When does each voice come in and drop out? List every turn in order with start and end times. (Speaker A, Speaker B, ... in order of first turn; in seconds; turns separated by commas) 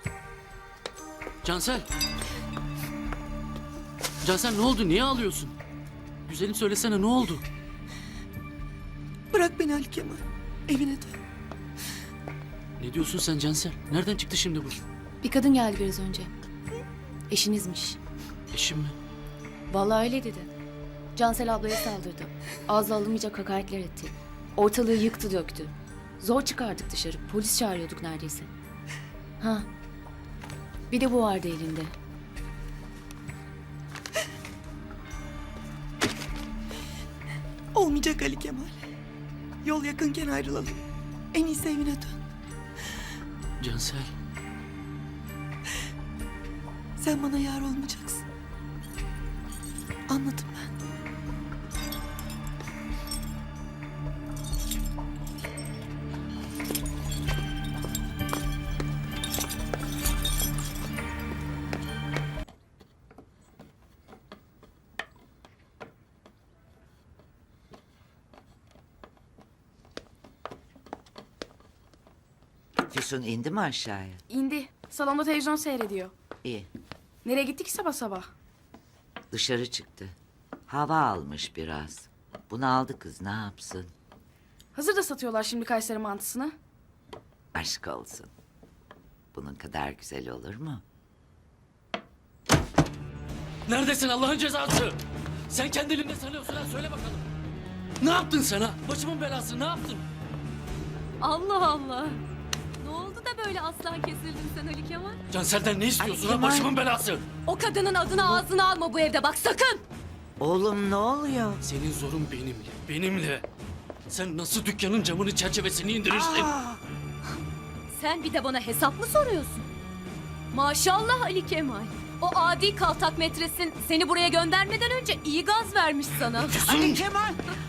Speaker A: 1.4-1.9, Speaker A: 4.2-5.5, Speaker A: 6.3-7.4, Speaker B: 9.3-11.2, Speaker A: 12.8-14.8, Speaker C: 15.2-16.3, Speaker C: 17.3-18.0, Speaker A: 18.5-19.0, Speaker C: 19.7-20.5, Speaker C: 21.2-24.1, Speaker C: 24.6-25.7, Speaker C: 26.2-28.4, Speaker C: 30.9-31.9, Speaker B: 37.8-38.8, Speaker B: 39.6-40.8, Speaker B: 41.3-42.2, Speaker A: 43.6-44.1, Speaker B: 47.0-48.2, Speaker B: 50.1-50.7, Speaker D: 72.9-74.2, Speaker E: 74.3-76.1, Speaker D: 76.4-76.7, Speaker E: 77.2-78.3, Speaker D: 79.3-80.2, Speaker D: 80.7-83.9, Speaker E: 84.8-86.5, Speaker D: 87.5-88.3, Speaker D: 89.3-90.8, Speaker A: 93.7-95.0, Speaker A: 95.5-97.2, Speaker A: 98.0-100.1, Speaker F: 101.2-102.2, Speaker F: 102.8-105.2, Speaker A: 105.3-107.2, Speaker D: 106.0-106.8, Speaker F: 107.5-109.8, Speaker D: 110.4-111.6, Speaker A: 111.6-113.5, Speaker A: 114.1-116.5, Speaker D: 116.1-116.8, Speaker F: 117.9-119.7, Speaker F: 120.5-126.7, Speaker A: 126.4-127.0, Speaker D: 126.5-127.5